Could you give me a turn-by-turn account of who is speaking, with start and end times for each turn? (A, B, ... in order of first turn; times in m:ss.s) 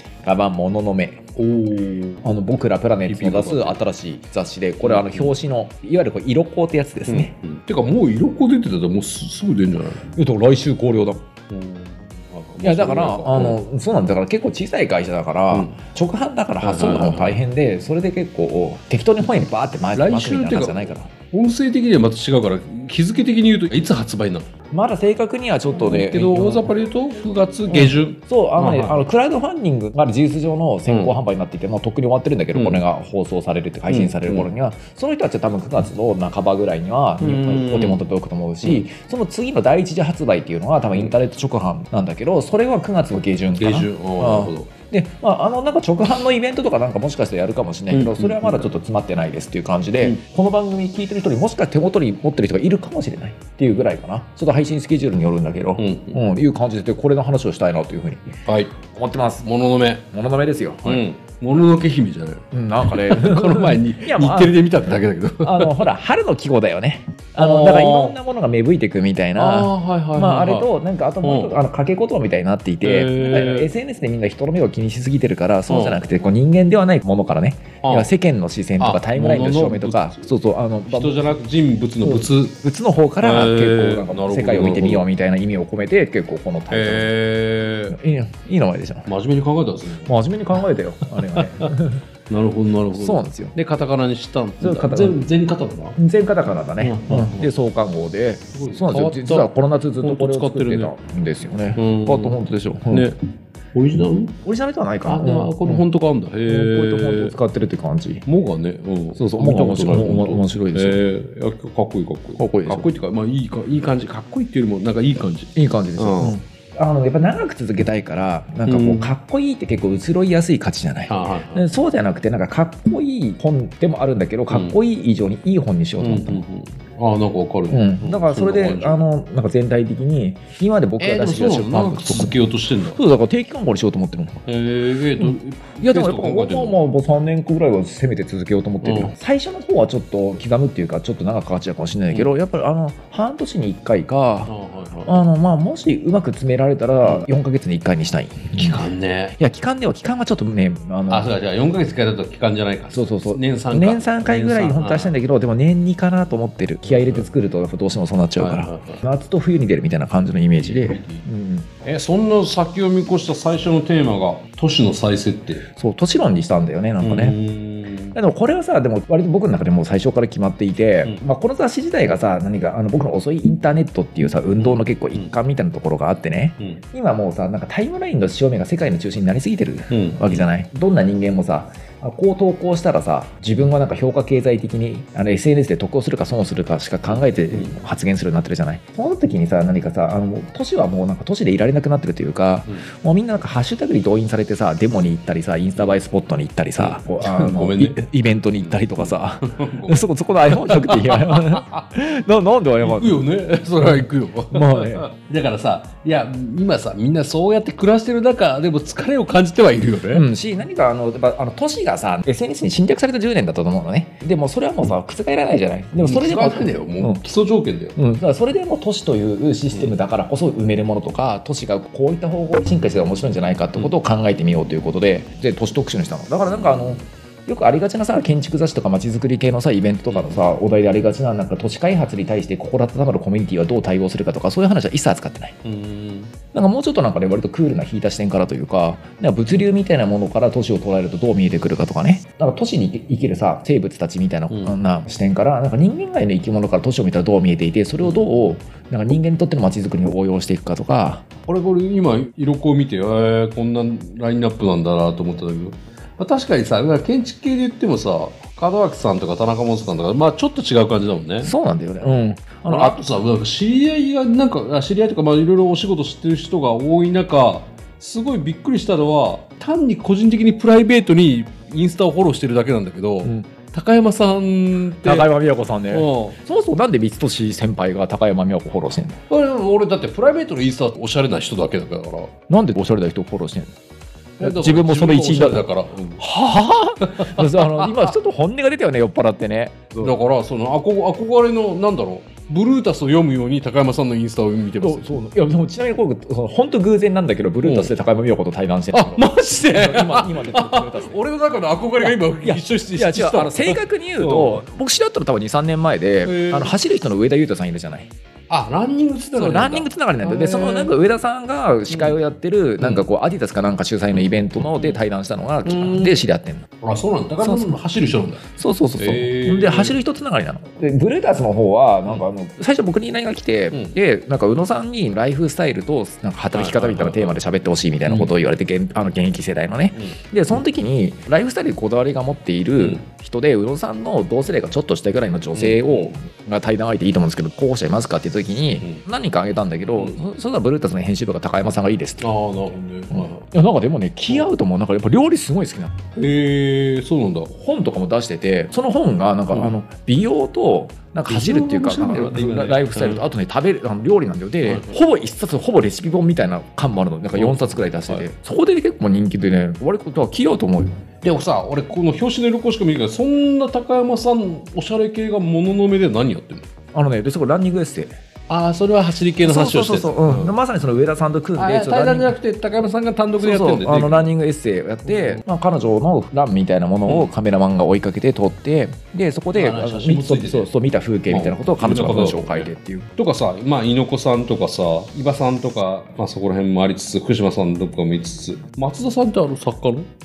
0:00.2-0:01.3 A
0:01.4-0:02.3 B
0:02.2-0:07.3 A
0:03.1-0:03.8 B
0:04.8-0:05.4 B
0:07.1-0:10.0 B
0:10.1-0:11.2 A
0:11.5-0:13.6 B
0:12.6-0:21.1 A
0:15.5-0:15.8 B
0:16.6-0:17.4 B
0:19.9-0:24.5 B
0:24.7-0:26.7 A
0:25.7-0:29.0 B
0:27.7-0:58.3 A
0:30.9-0:31.2 B
0:32.6-0:32.8 B
0:33.9-0:34.5 B
0:37.2-0:38.0 B
0:43.6-0:44.7 B
0:47.9-0:48.7 B
0:55.8-0:56.2 B
0:58.5-0:58.7 B
0:58.8-0:59.5 A
0:59.4-1:00.0 B
1:00.1-1:01.0 A
1:00.8-1:05.9 B
1:02.5-1:04.6 A
1:05.4-1:21.4 A
1:07.4-1:08.2 B
1:09.4-1:10.7 B
1:11.2-1:11.6 B
1:12.8-1:13.7 B
1:15.7-1:16.0 B
1:17.8-1:18.1 B
1:18.8-1:20.3 B
1:20.9-1:22.6 B
1:22.0-1:27.1 A
1:23.2-1:25.1 B
1:26.7-1:28.0 B
1:27.9-1:29.1 A
1:29.1-1:30.1 B
1:30.1-1:32.0 A
1:31.4-1:31.7 B
1:32.3-1:36.0 B
1:32.9-1:33.6 A
1:34.6-1:35.2 A
1:36.0-1:43.1 A
1:36.8-1:37.5 B
1:38.5-1:39.5 B
1:40.0-1:40.9 B
1:41.8-1:42.4 B
1:42.9-1:43.2 B
1:43.7-1:44.4 B
1:44.4-1:45.8 A
1:45.1-1:47.4 B
1:46.5-1:48.2 A
1:48.3-1:56.4 B
1:49.2-1:51.0 A
1:52.4-1:52.9 A
1:55.6-2:06.4 A
1:58.7-1:59.2 B
2:01.1-2:01.8 B
2:04.5-2:04.8 B
2:06.0-2:09.0 B
2:07.7-2:12.4 A
2:11.0-2:13.0 B
2:13.0-2:14.4 A
2:14.5-2:16.8 B
2:15.2-2:24.5 A
2:18.8-2:19.1 B
2:24.5-2:25.2 B
2:25.1-2:31.3 A
2:28.6-2:29.4 B
2:31.1-2:35.2 B
2:32.9-2:41.7 A
2:36.8-2:37.3 B
2:38.4-2:39.0 B
2:40.6-2:41.3 B
2:41.8-2:45.7 B
2:45.8-2:47.4 A
2:47.0-2:48.2 B
2:48.1-3:23.2 A
2:54.6-2:55.3 B
2:59.9-3:00.5 B
3:07.1-3:07.8 B
3:16.8-3:18.0 B
3:18.6-3:21.8 B
3:22.8-3:30.3 B
3:24.5-3:25.1 A
3:30.1-3:37.2 A
3:36.0-3:38.0 B
3:38.0-3:55.6 A
3:46.5-3:47.0 B
3:50.1-3:50.6 B
3:55.6-3:56.3 B
3:56.5-4:11.2 A
4:04.5-4:04.8 B
4:08.0-4:08.5 B
4:11.5-4:21.5 B
4:21.4-4:23.0 A
4:22.0-4:35.3 B
4:33.2-4:33.5 A
4:35.0-4:39.2 A
4:35.9-4:36.4 B
4:39.3-4:42.3 B
4:42.5-4:43.7 A
4:44.4-4:46.3 B
4:44.4-4:45.7 A
4:46.2-4:50.1 A
4:47.0-4:48.1 B
4:50.0-4:55.2 B
4:54.8-5:01.2 A
4:57.6-4:57.9 B
4:58.9-5:04.6 B
5:02.0-5:08.1 A
5:06.2-5:06.8 B
5:08.5-5:11.0 B
5:09.3-5:16.7 A
5:11.9-5:12.2 B
5:12.8-5:13.1 B
5:14.1-5:15.0 B
5:15.6-5:16.2 B
5:16.8-5:18.4 B
5:17.4-5:17.8 A
5:18.5-5:42.3 A
5:19.0-5:20.0 B
5:23.7-5:24.0 B
5:26.5-5:27.4 B
5:28.1-5:28.3 B
5:35.5-5:36.1 B
5:42.2-5:43.4 B
5:43.1-5:46.0 A
5:46.2-5:47.5 B
5:47.5-6:01.0 A
5:51.3-5:53.2 B
5:54.6-5:54.9 B
5:57.4-5:58.3 B
6:01.2-6:06.6 B
6:06.9-6:08.2 A
6:08.5-6:10.6 B
6:09.4-6:12.4 A
6:11.6-6:14.3 B
6:13.4-6:23.1 A
6:15.0-6:15.4 B
6:19.5-6:20.7 B
6:21.3-6:30.1 B